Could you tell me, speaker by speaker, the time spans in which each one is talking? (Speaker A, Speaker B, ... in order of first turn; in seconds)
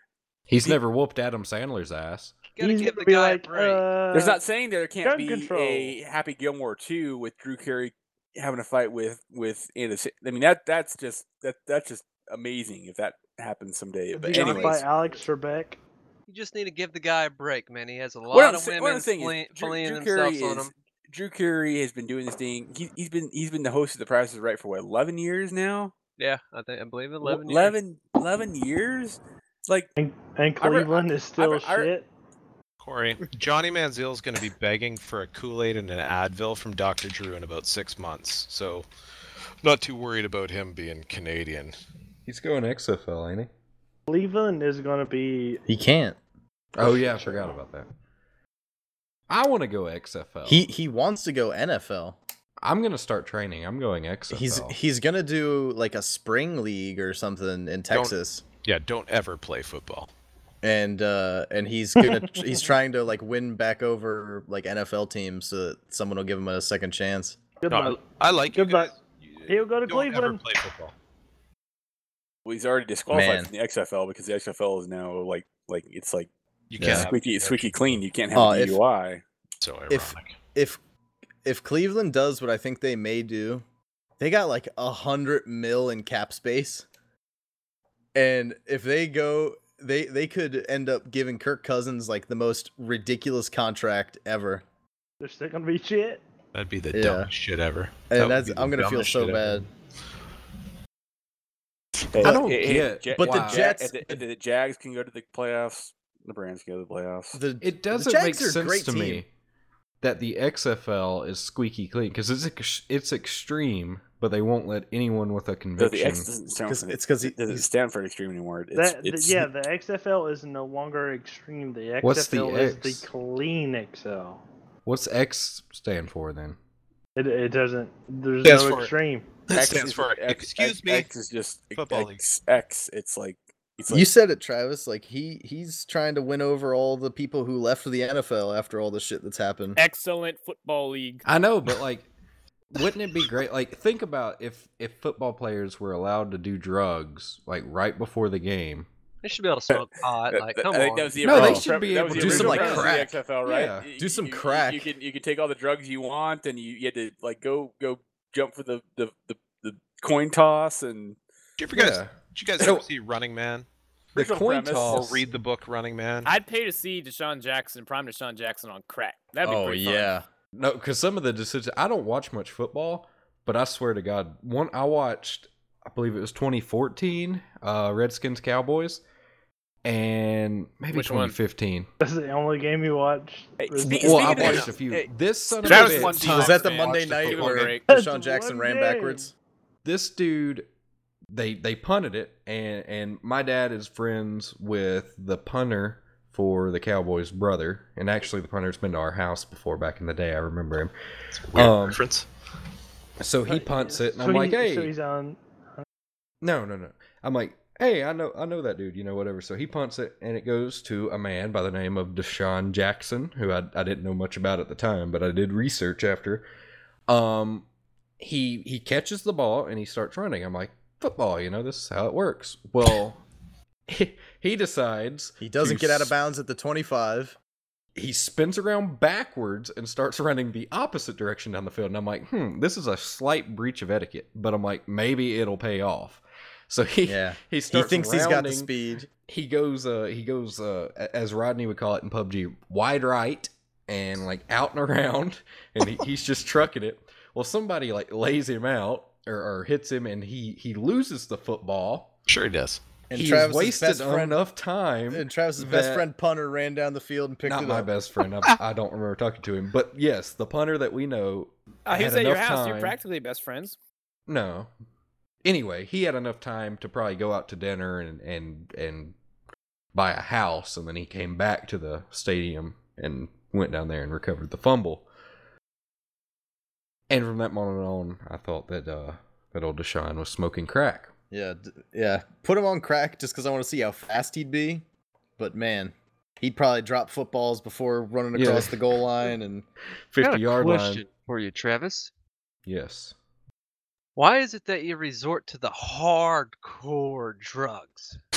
Speaker A: 0.5-2.4, 42.2-43.5, 46.7-47.9, 49.3-50.6, 52.6-54.8, 102.2-103.7, 107.6-109.3, 110.0-116.3, 122.0-123.1, 124.8-126.6, 141.2-142.1, 142.7-148.9, 151.2-153.9, 161.7-162.9, 164.1-165.2, 170.5-179.0, 179.8-181.9, 183.9-186.5, 189.8-190.7, 191.3-200.9, 201.5-202.0, 203.2-204.9, 206.4-216.4, 217.1-217.7, 218.2-223.2, 223.9-226.1, 227.9-252.1, 253.1-256.1, 257.4-263.0, 264.3-264.7, 265.4-269.1, 269.9-275.1, 277.1-281.1, 288.3-288.7, 290.1-291.0, 292.6-293.1
Speaker B: 2.5-3.8, 16.3-20.7, 26.2-27.8, 149.2-151.6, 290.2-292.1, 294.1-298.2
Speaker C: 2.6-4.4, 5.0-6.0, 14.1-15.8, 30.0-32.1, 44.1-45.6, 67.6-68.0, 68.5-68.9, 69.5-70.4, 95.2-96.2, 118.7-124.4, 127.2-129.2, 182.0-184.6, 187.9-189.3, 203.4-205.8
Speaker D: 4.1-14.9, 18.3-25.9, 27.2-29.9, 30.6-31.9, 72.4-79.2, 102.1-107.4, 115.8-119.5, 129.5-134.1, 149.7-161.2, 164.1-165.1, 183.6-185.1
Speaker E: 14.4-14.8, 45.7-46.2, 46.8-47.5, 50.5-52.2, 54.3-58.4, 60.6-67.4, 73.1-73.5, 76.8-77.1, 78.3-78.8, 79.9-80.8, 81.4-83.6, 84.2-86.8, 88.1-94.6, 96.9-97.3, 98.1-99.7, 103.2-104.2, 107.3-109.2, 116.7-117.7, 133.9-139.8, 151.3-153.2, 154.0-154.9, 169.4-170.2, 186.0-189.3, 225.4-227.3, 237.1-239.1, 253.1-254.4, 255.1-257.9, 281.3-284.8, 285.4-289.6
Speaker F: 32.8-38.9, 39.6-41.7, 57.9-60.1, 67.7-70.9, 76.7-78.0, 79.6-80.3, 96.5-99.7, 128.4-128.9, 129.5-131.1, 131.7-132.2, 161.6-163.7, 164.8-166.3, 185.6-187.7, 201.3-202.3, 252.3-252.8
Speaker G: 139.8-141.2, 166.2-170.1, 180.9-181.3, 185.6-187.8, 261.9-263.8